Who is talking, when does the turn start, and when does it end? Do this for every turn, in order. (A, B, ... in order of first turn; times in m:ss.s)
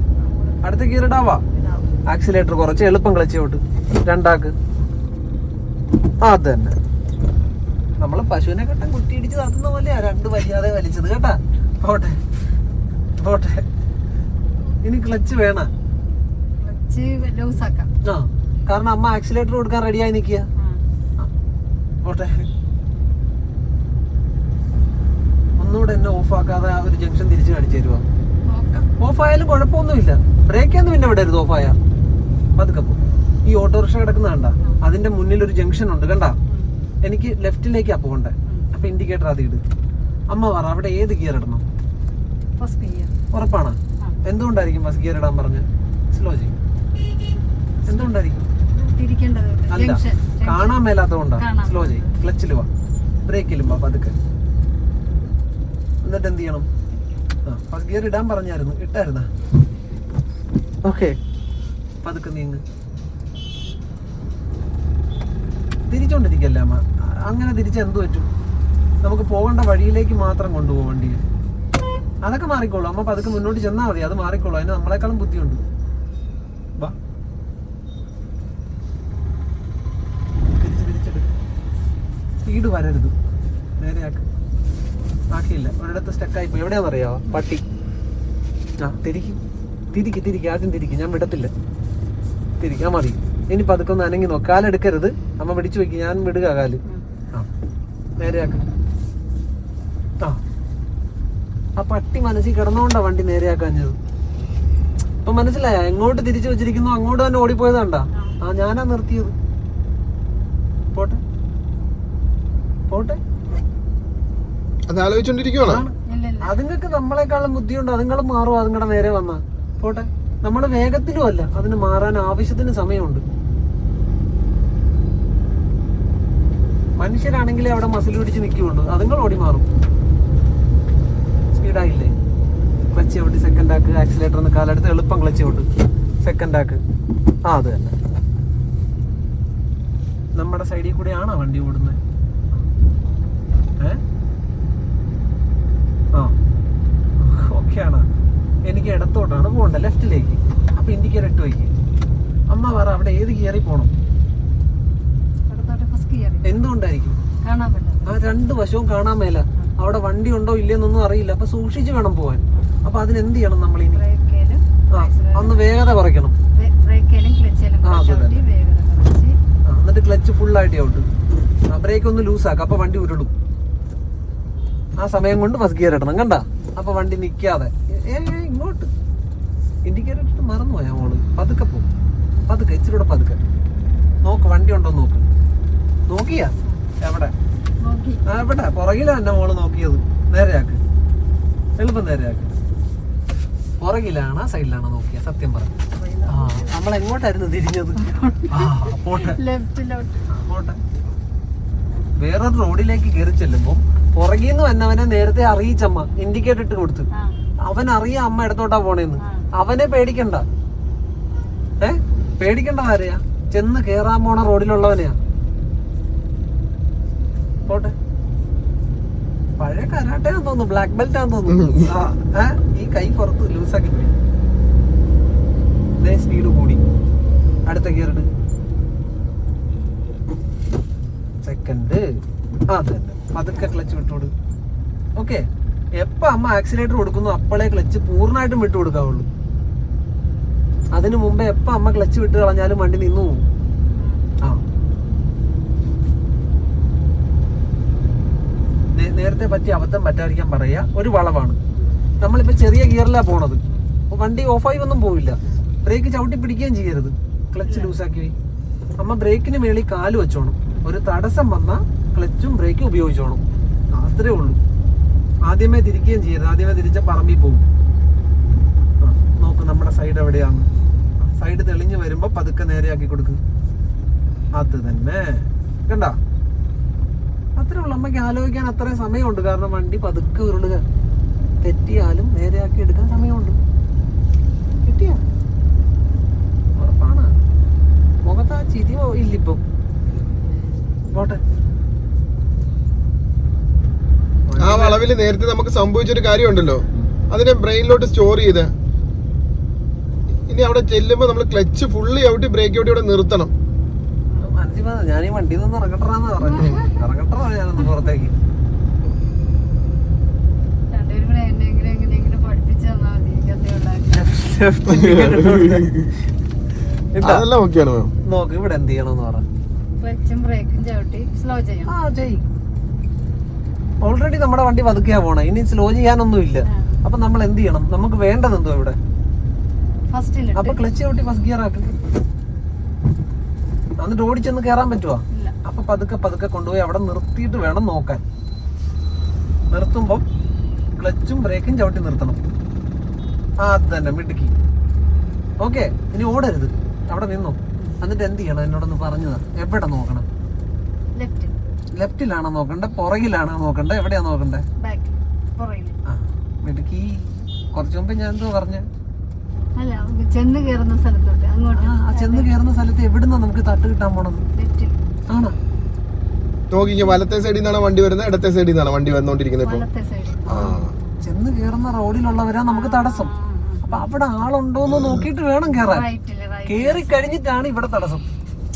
0:00.2-0:00.9 A
0:00.6-0:01.4 B
0:01.4-0:01.9 A
0:02.1-0:04.6 B
0:06.2-0:06.8 B
0:08.0-0:12.2 B
0:13.2-0:13.7 B
0:14.8-0:15.7 B
0:16.6-0:17.9 A
0:18.0-0:20.5 B
0:20.6-0:20.8 A
0:22.0-0:22.5 B
0:25.6-0:28.0 B
0:28.5-0:28.9 A
0:29.0-0:31.8 B
0:32.6-0:36.4 B
0:37.0-0:39.6 B
0:40.3-0:41.6 B
0:42.6-0:43.1 A
0:43.3-0:46.6 B
0:47.9-0:48.5 B
0:48.7-0:52.1 A
0:49.7-0:52.7 B
0:53.3-0:54.2 B
0:56.0-0:56.7 B
0:57.5-0:59.3 B
1:00.8-1:01.2 B
1:02.0-1:02.6 B
1:05.9-1:08.3 B
1:09.0-1:11.2 B
1:12.2-1:15.6 B
1:20.5-1:21.3 B
1:22.4-1:23.1 B
1:23.8-1:24.2 B
1:25.3-1:27.6 B
1:28.8-1:29.4 B
1:29.9-1:31.5 B
1:32.6-1:36.8 B
1:38.2-1:38.6 B
1:41.8-1:44.0 B
1:45.2-1:49.4 B
1:51.0-1:51.2 B
1:52.9-1:53.2 B
1:54.9-1:55.8 C
1:55.6-2:03.2 B
1:56.1-1:56.6 A
2:07.0-2:09.7 B
2:11.6-2:12.1 B
2:12.9-2:15.7 B
2:16.2-2:16.8 B
2:17.5-2:17.9 B
2:20.4-2:22.0 B
2:27.2-2:28.0 B
2:28.7-2:31.7 B
2:32.5-2:33.9 B
2:35.5-2:36.6 A
2:36.4-2:37.2 B
2:37.4-2:38.1 A
2:38.0-2:44.0 B
2:43.9-2:45.7 A
2:44.9-2:46.3 B
2:46.6-2:49.4 A
2:47.8-2:48.4 B
2:49.7-2:51.1 B
2:51.7-2:53.3 B
2:55.0-2:58.9 B
2:59.9-3:01.9 B
3:02.5-3:03.4 B
3:04.2-3:05.2 B
3:06.1-3:07.3 B
3:07.8-3:08.2 A
3:08.3-3:10.8 B
3:11.8-3:12.6 B
3:13.8-3:15.7 B
3:15.9-3:16.7 A
3:16.3-3:19.4 B
3:18.0-3:20.3 A
3:20.3-3:20.8 B
3:22.2-3:27.1 B
3:27.1-3:27.4 A
3:27.6-3:30.5 B
3:29.2-3:29.5 A
3:31.8-3:35.2 B
3:37.7-3:38.0 B
3:39.6-3:44.1 B
3:41.5-3:41.9 C
3:46.0-3:46.8 B
3:47.7-3:48.3 B
3:51.4-3:52.2 B
3:52.7-3:54.3 B
3:55.2-3:55.5 B
3:56.0-3:59.3 B
4:00.9-4:03.4 B
4:03.9-4:04.3 A
4:08.9-4:11.6 B
4:11.7-4:12.0 A
4:12.2-4:18.4 B
4:13.7-4:13.9 A
4:17.7-4:17.9 A
4:19.0-4:24.6 B
4:23.5-4:23.8 A
4:25.5-4:27.6 B
4:29.0-4:30.7 B
4:31.2-4:33.4 B
4:34.5-4:36.2 B
4:37.6-4:40.8 B
4:41.6-4:43.6 B
4:44.8-4:45.2 B
4:46.8-4:47.3 B
4:48.3-4:49.6 B
4:51.1-4:51.4 B
4:54.5-4:55.0 B
4:54.6-4:58.7 C
5:00.5-5:03.5 C
5:04.4-5:08.3 B
5:06.4-5:07.0 A
5:10.9-5:14.6 A
5:14.1-5:15.9 B
5:14.9-5:15.9 C
5:17.1-5:17.5 B
5:17.2-5:18.1 C
5:18.3-5:19.4 B
5:20.0-5:22.0 A
5:21.9-5:22.5 B
5:24.0-5:29.0 B
5:26.7-5:27.0 A
5:30.1-5:30.8 A
5:30.6-5:32.0 B
5:34.0-5:38.2 B
5:39.7-5:40.2 B
5:41.0-5:42.4 B
5:43.6-5:44.5 B
5:45.6-5:50.3 B
5:51.2-5:51.5 A
5:52.0-5:54.7 B
5:54.8-5:56.0 A
5:56.1-5:58.9 B
5:59.8-6:02.5 A
6:01.7-6:04.4 B
6:04.6-6:05.0 A
6:05.3-6:05.6 B
6:06.7-6:09.8 C
6:09.6-6:11.2 A
6:10.5-6:13.3 B
6:10.5-6:10.9 C
6:12.7-6:14.1 A
6:13.8-6:16.0 B
6:15.7-6:17.4 A
6:16.7-6:18.2 B